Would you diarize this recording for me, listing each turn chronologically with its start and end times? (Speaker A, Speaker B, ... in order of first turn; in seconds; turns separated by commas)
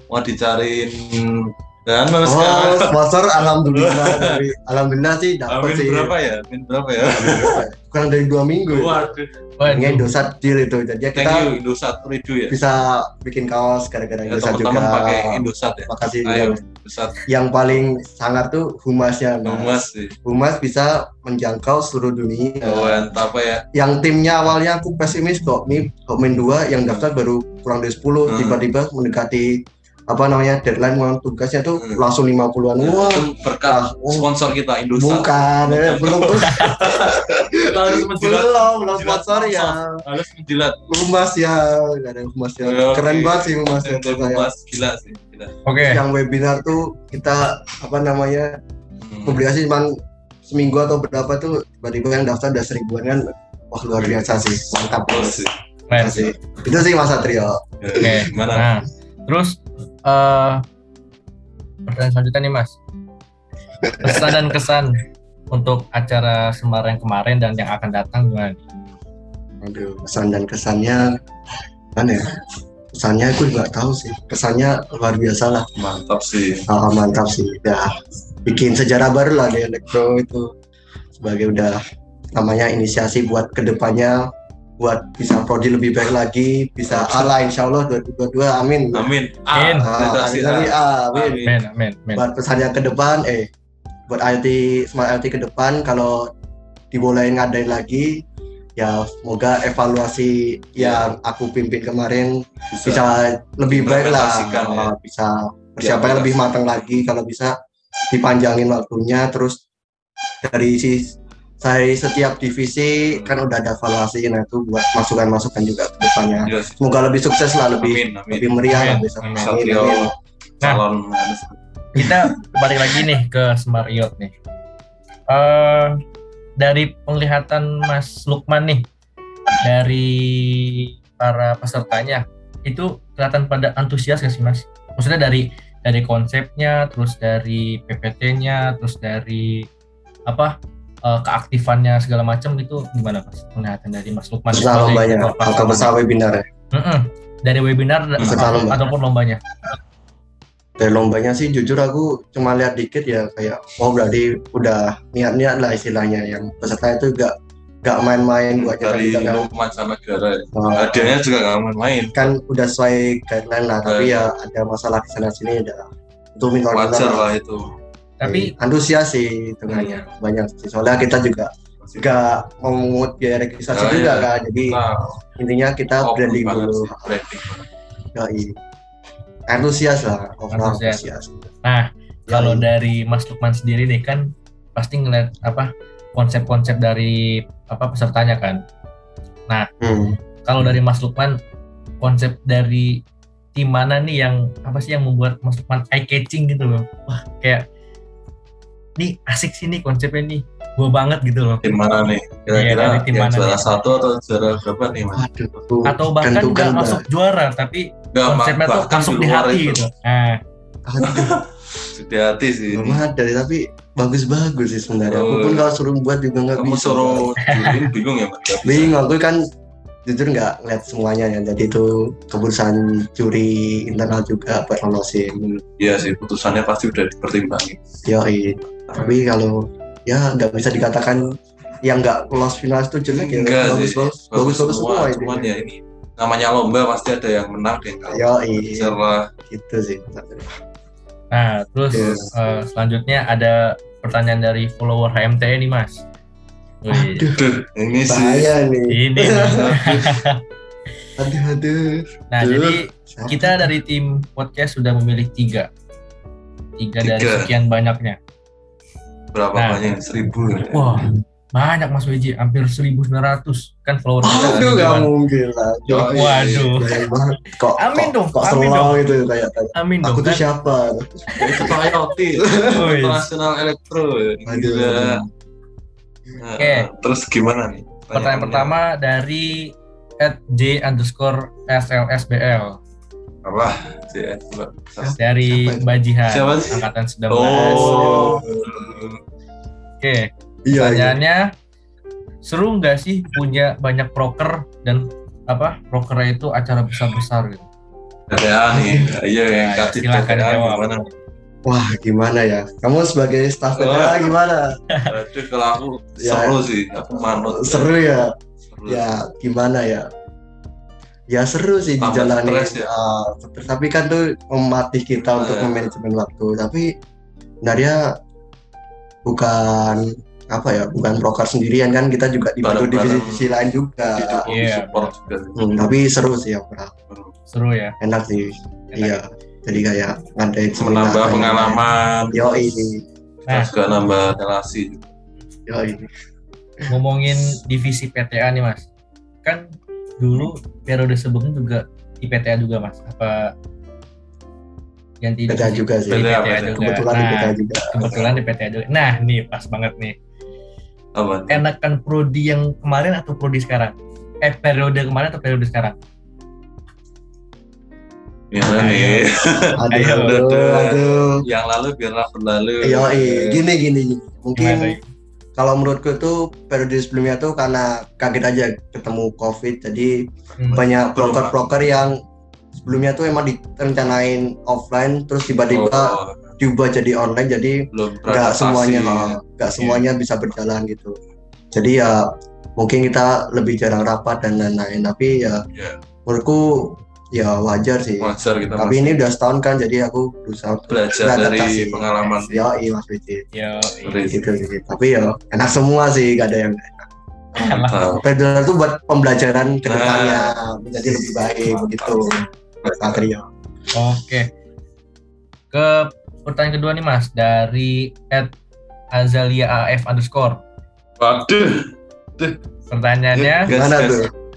Speaker A: 0.1-4.4, Speaker B: 2.2-6.1, Speaker A: 5.5-7.6, Speaker B: 7.0-9.1, Speaker A: 8.7-9.3, Speaker C: 9.6-10.1, Speaker B: 9.7-11.5, Speaker A: 11.1-12.6, Speaker B: 12.5-16.6, Speaker A: 14.3-17.3, Speaker B: 17.3-23.2, Speaker A: 19.4-20.2, Speaker A: 22.6-23.6, Speaker B: 23.7-34.3, Speaker A: 28.3-28.6, Speaker A: 31.8-32.0, Speaker A: 32.8-40.8, Speaker B: 35.0-36.9, Speaker B: 37.5-40.0, Speaker B: 40.9-44.5, Speaker A: 42.6-45.6, Speaker C: 45.7-46.0, Speaker B: 45.8-48.6, Speaker A: 49.0-49.4, Speaker B: 49.2-49.9, Speaker B: 50.5-58.2, Speaker A: 54.0-55.5, Speaker C: 55.9-56.3, Speaker A: 57.8-58.7, Speaker C: 58.0-60.6, Speaker C: 61.9-62.8, Speaker B: 63.9-64.4, Speaker C: 64.0-68.6, Speaker B: 69.6-71.1, Speaker B: 72.0-72.3, Speaker B: 72.9-75.7, Speaker A: 75.8-76.7, Speaker B: 76.7-77.9, Speaker B: 78.5-80.5, Speaker B: 81.2-81.8, Speaker B: 82.3-89.1, Speaker A: 86.9-87.4, Speaker A: 88.9-91.5, Speaker C: 89.5-89.9, Speaker B: 89.8-91.5, Speaker C: 91.4-92.2, Speaker B: 92.2-93.5, Speaker B: 94.1-96.3, Speaker B: 96.9-98.2, Speaker B: 98.8-107.5, Speaker A: 100.8-101.1, Speaker A: 102.7-103.2, Speaker A: 103.7-104.9, Speaker A: 105.8-107.0, Speaker B: 108.1-109.6, Speaker B: 110.4-120.1, Speaker A: 113.1-113.5, Speaker A: 116.5-116.8, Speaker A: 117.8-118.7, Speaker C: 118.7-119.5, Speaker A: 119.4-121.6, Speaker C: 122.0-124.3, Speaker C: 125.3-126.0, Speaker C: 126.6-128.9, Speaker C: 129.6-139.7, Speaker C: 140.3-140.5, Speaker C: 141.1-145.9, Speaker B: 144.5-146.4, Speaker C: 146.7-149.4, Speaker A: 148.2-148.5, Speaker B: 148.2-148.8, Speaker B: 150.8-159.5, Speaker A: 158.5-162.3, Speaker B: 160.5-161.2, Speaker B: 162.2-167.3, Speaker A: 163.9-164.3, Speaker A: 166.7-167.6, Speaker C: 168.2-168.5, Speaker B: 168.2-174.8, Speaker A: 169.7-170.1, Speaker A: 171.8-172.2, Speaker A: 173.7-175.2, Speaker B: 175.4-177.2, Speaker A: 176.0-177.7, Speaker B: 178.2-178.6, Speaker B: 179.5-181.3, Speaker C: 180.5-181.0, Speaker C: 181.6-188.6, Speaker B: 182.3-182.7, Speaker B: 189.8-190.2, Speaker C: 190.4-191.4, Speaker C: 192.0-193.0, Speaker C: 193.6-197.7, Speaker C: 199.0-201.7, Speaker A: 201.6-205.2, Speaker C: 202.5-203.9, Speaker B: 205.1-207.1, Speaker C: 205.8-210.4, Speaker A: 208.1-209.9, Speaker B: 210.9-211.4, Speaker A: 211.0-213.0, Speaker B: 212.7-217.7, Speaker A: 215.1-215.7, Speaker A: 216.6-219.0, Speaker C: 217.4-217.8, Speaker B: 218.6-219.4, Speaker B: 220.1-225.6, Speaker A: 225.8-227.8, Speaker B: 228.1-235.5, Speaker A: 228.9-229.1, Speaker A: 233.1-239.3, Speaker B: 238.0-239.0, Speaker B: 239.5-240.5, Speaker C: 241.3-246.0, Speaker B: 241.9-242.3, Speaker C: 246.8-247.2, Speaker B: 246.9-247.4, Speaker A: 247.4-248.5, Speaker B: 248.1-249.7, Speaker C: 248.9-250.4, Speaker A: 249.5-250.2, Speaker B: 251.2-253.7, Speaker C: 252.3-255.7, Speaker C: 256.8-258.2, Speaker A: 257.0-257.5, Speaker A: 259.3-261.0, Speaker C: 259.6-259.8, Speaker C: 260.5-265.1, Speaker B: 264.2-271.7, Speaker A: 265.9-266.7, Speaker C: 266.1-267.0, Speaker C: 267.8-269.1, Speaker C: 269.8-270.4, Speaker A: 271.4-275.2, Speaker B: 272.4-272.8, Speaker C: 272.7-273.2, Speaker B: 274.5-275.3, Speaker A: 276.4-278.8, Speaker C: 276.6-276.9, Speaker C: 278.1-282.8, Speaker A: 283.4-285.2, Speaker B: 285.0-285.9, Speaker C: 285.2-288.3, Speaker A: 286.3-289.2, Speaker B: 287.5-289.1, Speaker C: 290.0-291.5, Speaker B: 290.6-291.2, Speaker C: 292.4-297.7, Speaker A: 298.3-301.1, Speaker B: 298.7-299.1, Speaker C: 299.5-300.9, Speaker B: 301.7-304.7, Speaker A: 303.8-304.3, Speaker A: 305.1-308.0, Speaker B: 306.2-306.6, Speaker B: 307.1-308.3, Speaker A: 308.7-309.1, Speaker B: 308.9-310.1, Speaker B: 311.3-316.9, Speaker A: 312.0-312.9, Speaker A: 315.3-315.9, Speaker B: 317.6-318.0, Speaker B: 319.2-324.4, Speaker A: 322.6-323.6, Speaker A: 324.1-325.6, Speaker C: 324.5-325.2, Speaker B: 325.6-326.9, Speaker C: 327.5-328.0, Speaker B: 328.0-333.0, Speaker C: 328.9-329.2, Speaker A: 330.8-332.6, Speaker A: 333.5-335.1, Speaker B: 335.7-336.1, Speaker C: 336.9-338.9, Speaker C: 339.4-343.5, Speaker C: 345.2-350.1, Speaker B: 345.5-348.3, Speaker A: 346.1-346.9, Speaker A: 351.1-351.6, Speaker C: 351.5-356.0, Speaker A: 358.5-363.6, Speaker C: 358.6-359.3, Speaker B: 359.7-361.4, Speaker C: 359.9-360.4, Speaker B: 362.8-365.0, Speaker C: 364.6-365.0, Speaker B: 365.6-372.2, Speaker A: 370.7-371.9, Speaker B: 372.8-381.2, Speaker A: 375.7-376.4, Speaker A: 377.9-379.4, Speaker C: 379.8-380.1, Speaker B: 381.7-385.6, Speaker B: 386.3-393.4, Speaker A: 388.2-389.2, Speaker A: 390.9-392.6, Speaker C: 393.5-394.6, Speaker A: 394.0-394.4, Speaker B: 394.3-397.1, Speaker C: 397.6-398.0, Speaker A: 397.6-398.2, Speaker B: 398.2-403.5, Speaker A: 399.9-403.2, Speaker C: 403.9-404.5, Speaker C: 405.7-408.5, Speaker C: 409.1-410.6, Speaker A: 411.2-411.9, Speaker C: 412.9-413.7, Speaker A: 413.3-414.3, Speaker B: 413.7-414.3